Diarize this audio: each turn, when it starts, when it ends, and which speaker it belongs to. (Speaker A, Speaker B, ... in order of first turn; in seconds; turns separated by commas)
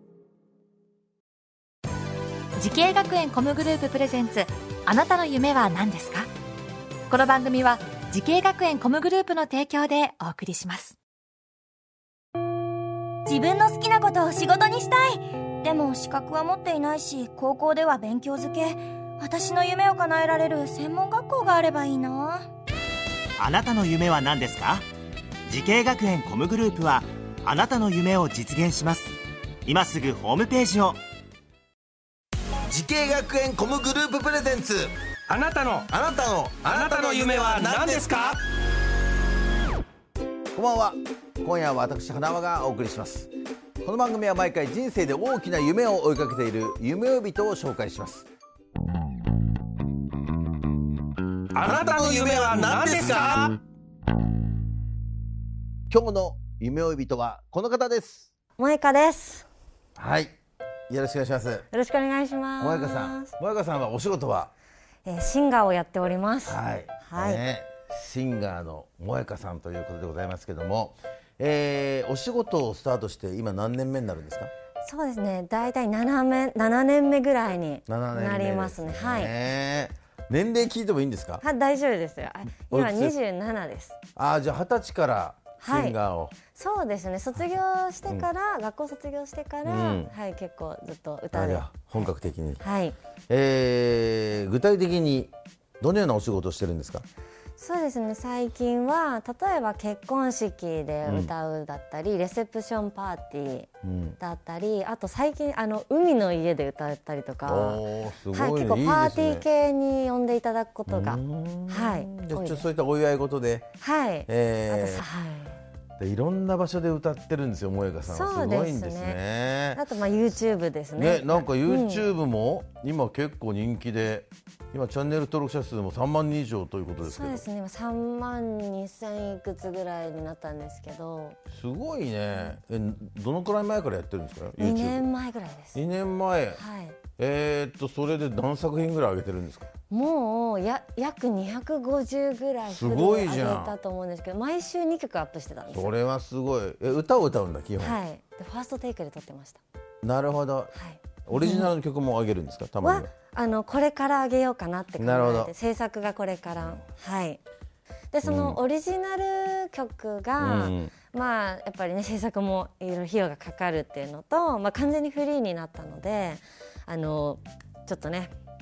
Speaker A: 2.5-6.3, Speaker A: 7.1-11.0, Speaker B: 13.2-22.5, Speaker C: 23.4-24.9, Speaker C: 25.5-31.0, Speaker D: 32.7-34.9, Speaker E: 35.3-35.9, Speaker D: 35.9-38.4, Speaker E: 36.6-38.4, Speaker D: 40.5-43.3, Speaker D: 43.8-48.3, Speaker E: 51.5-53.6, Speaker D: 51.6-53.5, Speaker D: 55.9-58.2, Speaker F: 58.6-59.5, Speaker D: 60.0-60.3, Speaker D: 60.9-61.7, Speaker F: 61.7-63.3, Speaker D: 62.6-64.5, Speaker F: 65.0-67.4, Speaker D: 66.5-74.5, Speaker F: 74.8-79.3, Speaker D: 77.9-81.4, Speaker F: 81.4-84.0, Speaker D: 82.7-83.1, Speaker D: 84.2-86.3, Speaker F: 85.6-93.0, Speaker D: 89.6-90.1, Speaker D: 91.3-92.6, Speaker D: 93.3-97.0, Speaker F: 97.6-112.7, Speaker D: 101.0-101.3, Speaker D: 103.8-104.2, Speaker D: 107.4-109.5, Speaker D: 110.9-113.7, Speaker F: 113.8-115.6, Speaker D: 114.3-115.0, Speaker D: 116.0-119.8, Speaker F: 118.1-119.2, Speaker F: 119.7-122.1, Speaker D: 121.0-127.4, Speaker F: 127.0-131.4, Speaker D: 131.5-135.1, Speaker F: 134.6-135.8, Speaker D: 135.7-136.6, Speaker F: 136.5-137.0, Speaker D: 137.2-139.7, Speaker F: 139.9-145.9, Speaker D: 142.6-143.7, Speaker D: 145.7-148.0, Speaker F: 147.8-149.6, Speaker D: 150.0-150.7, Speaker F: 150.7-151.7, Speaker D: 151.2-153.1, Speaker F: 152.8-157.4, Speaker D: 155.0-155.5, Speaker F: 158.1-168.3, Speaker D: 158.2-158.6, Speaker D: 160.4-160.9